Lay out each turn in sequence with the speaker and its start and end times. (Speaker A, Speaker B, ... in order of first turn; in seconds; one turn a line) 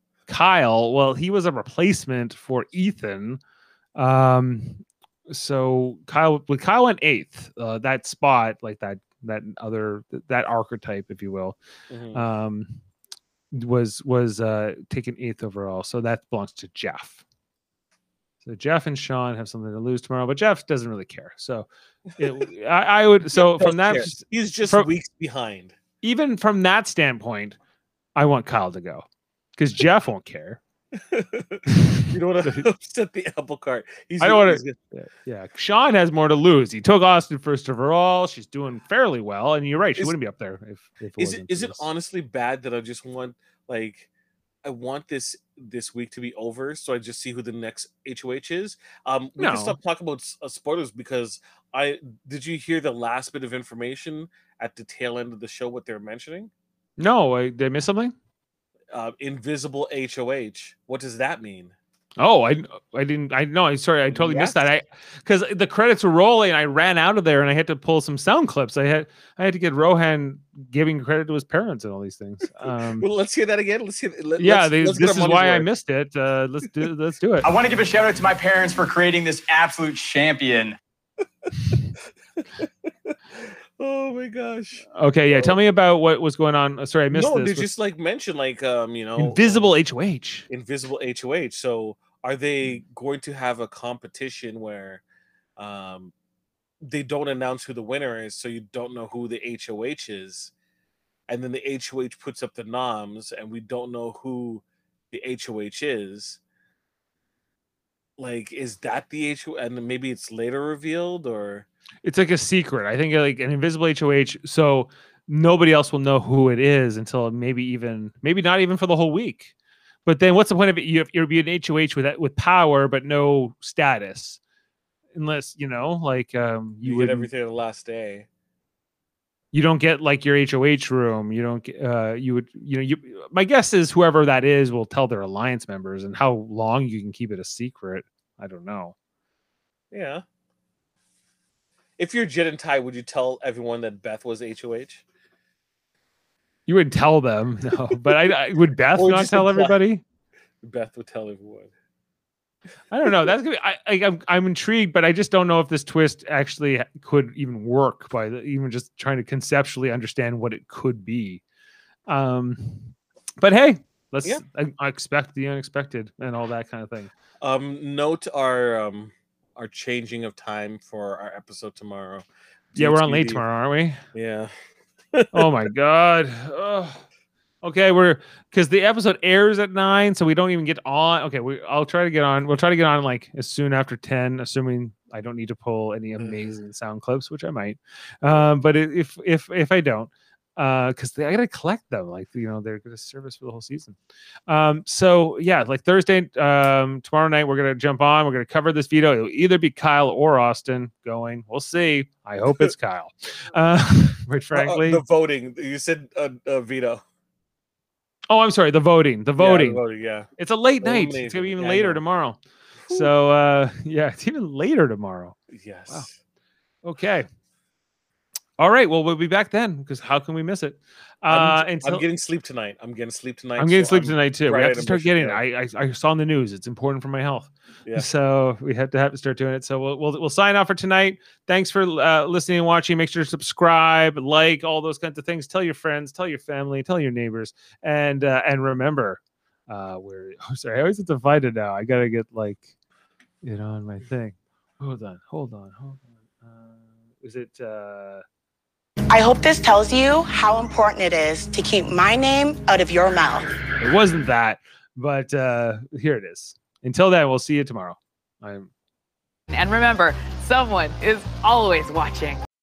Speaker A: 0.3-3.4
Speaker A: 4.0-11.6
Speaker B: 11.9-12.2
Speaker A: 12.1-12.8
Speaker A: 13.5-17.2
Speaker A: 18.4-21.7
Speaker A: 22.2-24.9
Speaker B: 23.4-25.7
Speaker A: 26.0-27.6
Speaker A: 28.1-29.0
Speaker A: 29.6-30.6
Speaker B: 31.0-34.8
Speaker A: 31.7-32.6
Speaker A: 34.2-41.8
Speaker B: 41.2-44.1
Speaker B: 44.6-56.5
Speaker A: 49.4-49.8
Speaker A: 57.0-58.1
Speaker B: 58.9-61.7
Speaker A: 62.2-73.0
Speaker B: 64.1-64.7
Speaker B: 73.0-75.7
Speaker A: 74.4-77.4
Speaker C: 77.4-80.8
Speaker B: 82.6-83.1
Speaker B: 83.8-85.5
Speaker A: 84.9-87.7
Speaker B: 87.1-89.6
Speaker A: 89.2-90.5
Speaker B: 90.5-95.0
Speaker B: 95.6-96.1
Speaker B: 96.8-100.5
Speaker B: 101.3-106.4
Speaker B: 108.2-111.7
Speaker A: 112.0-119.5
Speaker A: 120.0-124.4
Speaker A: 125.2-127.3
Speaker B: 126.8-128.3
Speaker A: 129.5-138.9
Speaker B: 139.9-140.2
Speaker B: 142.0-145.0
Speaker A: 146.7-150.0
Speaker B: 148.9-149.8
Speaker B: 150.6-151.7
Speaker A: 152.9-161.4
Speaker A: 162.1-167.1
Speaker B: 167.4-173.4
Speaker A: 172.8-174.0
Speaker B: 174.1-174.5
Speaker B: 175.1-175.5
Speaker A: 175.3-177.0
Speaker A: 177.6-193.9
Speaker B: 186.2-186.4
Speaker B: 188.2-188.5
Speaker A: 194.5-205.0
Speaker B: 204.5-207.0
Speaker A: 208.3-209.8
Speaker B: 209.4-210.3
Speaker A: 210.4-212.4
Speaker B: 210.8-212.0
Speaker B: 212.9-213.1
Speaker A: 212.9-215.3
Speaker B: 215.5-216.1
Speaker A: 216.8-217.2
Speaker A: 218.6-222.0
Speaker B: 221.3-225.4
Speaker A: 223.6-242.7
Speaker A: 243.4-248.2
Speaker D: 249.1-253.5
Speaker A: 253.8-258.7
Speaker E: 259.5-262.4